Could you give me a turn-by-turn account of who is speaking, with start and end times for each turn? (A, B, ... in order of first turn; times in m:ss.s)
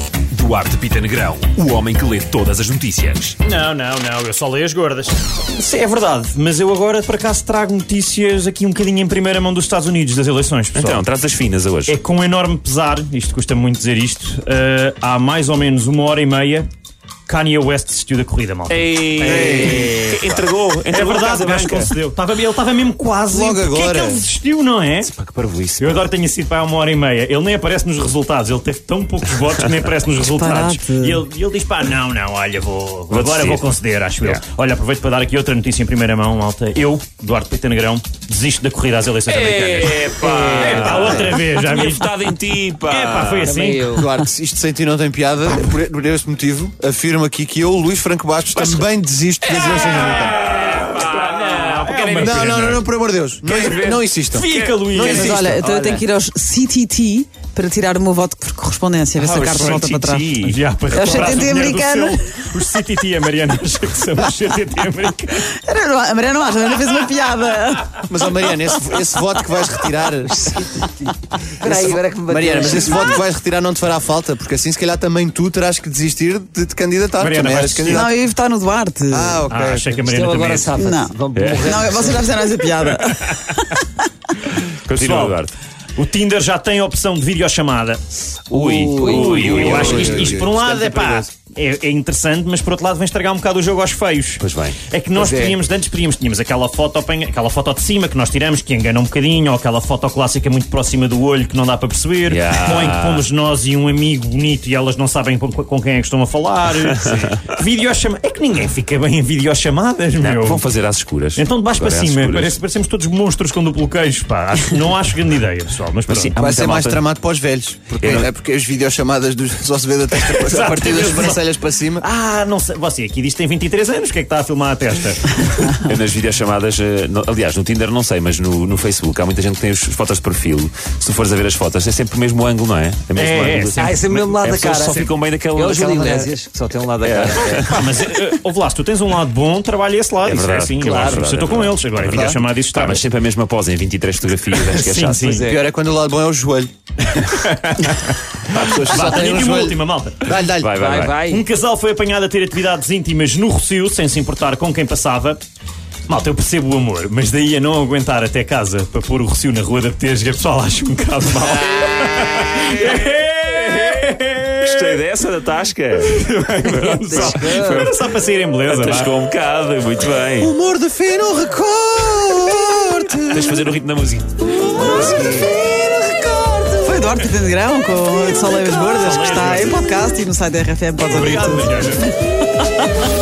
0:00.3-0:03.4 A
0:03.4-0:11.0 B
0:10.8-0:12.0 A
0:11.9-0:16.7 B
0:17.3-0:20.0 B
0:18.7-0:21.9 A
0:19.2-0:20.4 C
0:20.9-0:25.1 B
0:23.3-0:24.2 C
0:25.1-0:26.0 A
0:25.8-0:42.2 B
0:30.3-0:31.2 D
0:33.1-0:33.7 A
0:39.3-0:43.6 A
0:40.1-0:40.9 E
0:41.0-0:41.3 C
0:42.8-0:43.9 B
0:43.4-0:44.2 E
0:43.9-0:50.4 C
0:48.5-0:48.8 A
0:49.4-0:52.4 A
0:51.2-0:52.8 B
0:52.2-0:54.5 C
0:53.4-0:55.2 A
0:54.3-0:55.6 B
0:55.0-1:00.3 D
0:55.1-0:56.1 E
0:55.2-0:55.5 C
0:59.2-1:00.6 A
1:00.4-1:05.5 B
1:00.9-1:02.2 D
1:05.5-1:08.7 D
1:08.0-1:10.7 C
1:11.6-1:18.1 C
1:11.6-1:13.2 E
1:17.2-1:18.0 B
1:17.9-1:19.4 D
1:19.1-1:19.9 C
1:19.5-1:20.8 B
1:20.0-1:22.4 E
1:20.8-1:23.8 D
1:21.3-1:22.0 A
1:24.9-1:25.5 A
1:24.9-1:25.4 B
1:26.0-1:28.2 B
1:28.5-1:30.5 A
1:28.6-1:30.3 E
1:29.0-1:50.7 B
1:29.2-1:31.2 C
1:34.4-1:34.8 A
1:35.2-1:35.6 E
1:42.3-1:43.2 A
1:46.9-1:47.6 A
1:50.2-1:52.6 A
1:51.4-1:56.4 B
1:56.1-1:57.0 A
1:56.4-2:02.0 C
1:58.0-1:58.3 A
2:00.2-2:01.4 B
2:02.0-2:05.7 B
2:05.7-2:16.3 A
2:13.2-2:14.1 B
2:13.8-2:17.8 E
2:17.0-2:17.8 A
2:17.7-2:23.0 B
2:20.2-2:25.4 A
2:20.9-2:21.3 E
2:22.1-2:22.4 C
2:24.5-2:25.5 B
2:25.3-2:26.7 C
2:27.2-2:30.3 B
2:28.5-2:30.8 C
2:30.5-2:31.3 A
2:30.8-2:31.4 E
2:31.2-2:35.4 B
2:36.1-2:45.0 B
2:41.4-2:47.7 A
2:46.0-2:49.1 B
2:47.0-2:47.9 E
2:48.7-2:50.5 A
2:50.4-2:53.6 C
2:53.3-2:54.9 A
2:54.8-2:55.5 C
2:56.0-3:01.9 D
2:58.4-2:59.8 B
3:01.0-3:02.2 B